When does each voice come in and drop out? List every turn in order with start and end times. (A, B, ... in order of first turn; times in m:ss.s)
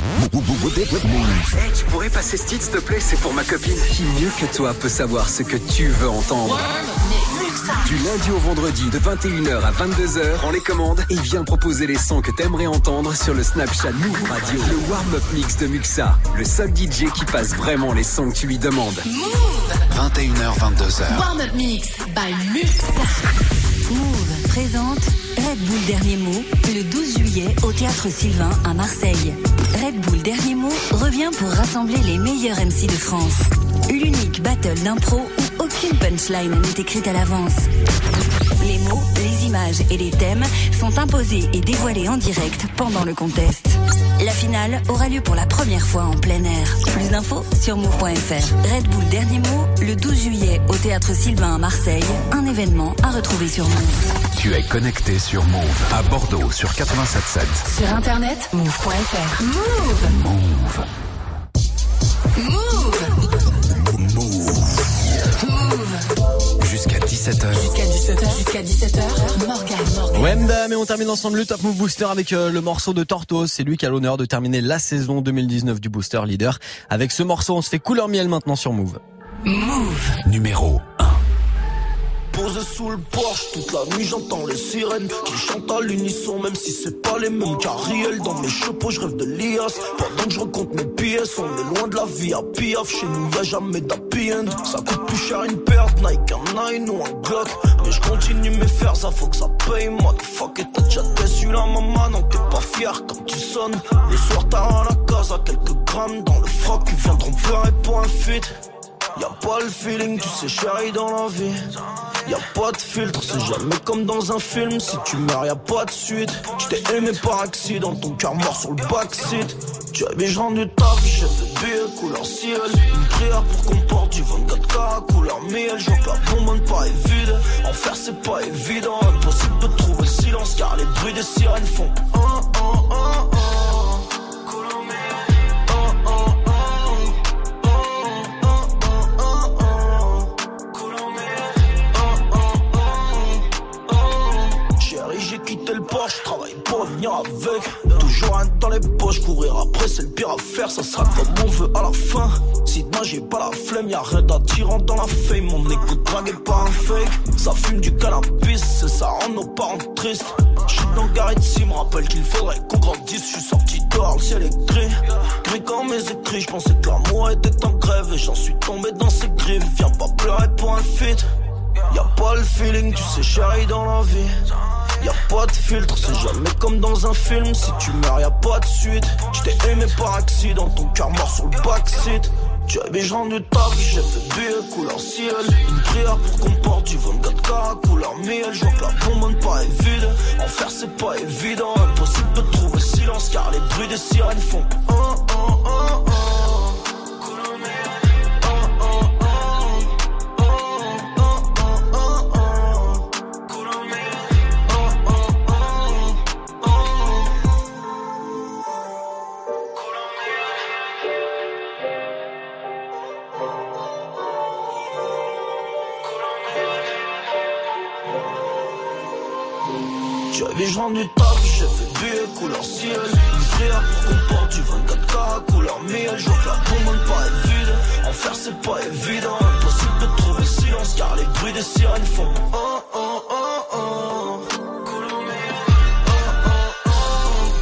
0:00.2-0:01.4 A
0:01.5-0:06.7 B
0:06.4-0:08.0 C
0:07.8-0:19.0 B
0:19.0-0:19.8 C
0:19.9-0:21.2 A
0:21.1-0:23.3 C
0:23.9-0:37.7 D
0:38.6-0:54.1 D
0:54.3-0:57.6 A
0:57.6-1:00.2 C
1:00.1-1:00.8 A
1:02.4-1:03.2 C
1:03.9-1:04.8 A
1:05.4-1:06.0 C
1:06.6-1:07.7 A
1:07.5-1:10.4 C
1:10.1-1:19.0 E
1:19.4-1:20.2 C
1:20.2-1:21.1 A
1:22.3-1:48.5 F
1:49.1-1:51.6 F
1:52.2-2:13.2 F
2:24.7-2:51.3 F
2:51.9-2:54.4 F
2:55.0-3:15.3 F
3:40.3-3:52.6 F